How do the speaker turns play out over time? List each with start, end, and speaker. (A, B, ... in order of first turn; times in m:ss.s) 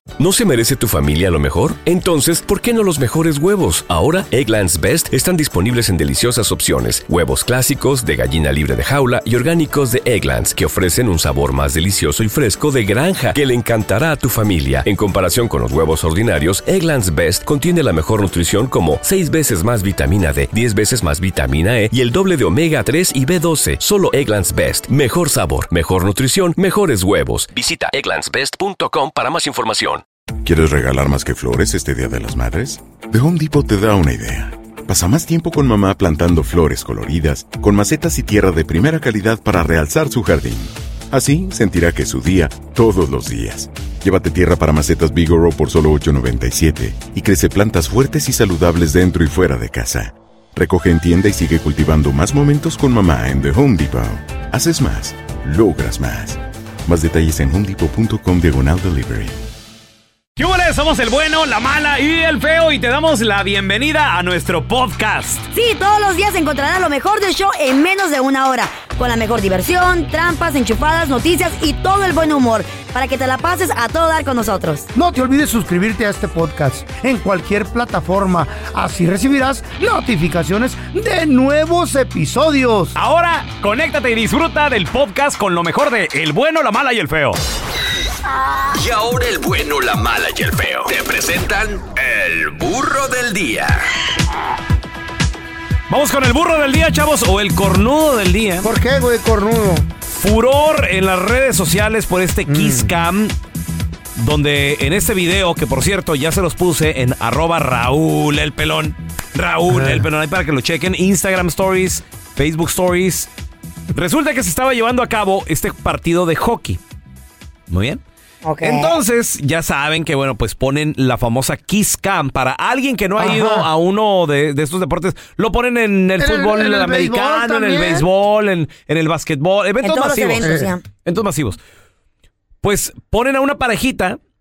0:00.2-0:30.0 A
0:30.4-0:59.4 B
1:00.4-1:05.4 C
1:05.5-1:14.9 D
1:14.9-1:22.9 E
1:22.9-1:27.4 C
1:28.7-1:33.8 F
1:35.9-1:38.7 C
1:38.6-1:39.9 E
1:40.1-1:43.3 C
1:42.5-1:42.9 E
1:44.2-1:53.3 C
1:49.7-1:50.0 E
1:53.9-1:56.8 C
1:57.7-1:58.0 C
1:58.4-1:58.9 D
1:58.6-2:11.6 C
2:03.2-2:03.7 E
2:06.2-2:08.0 E
2:09.8-2:10.8 D
2:10.4-2:10.7 E
2:12.6-2:14.2 C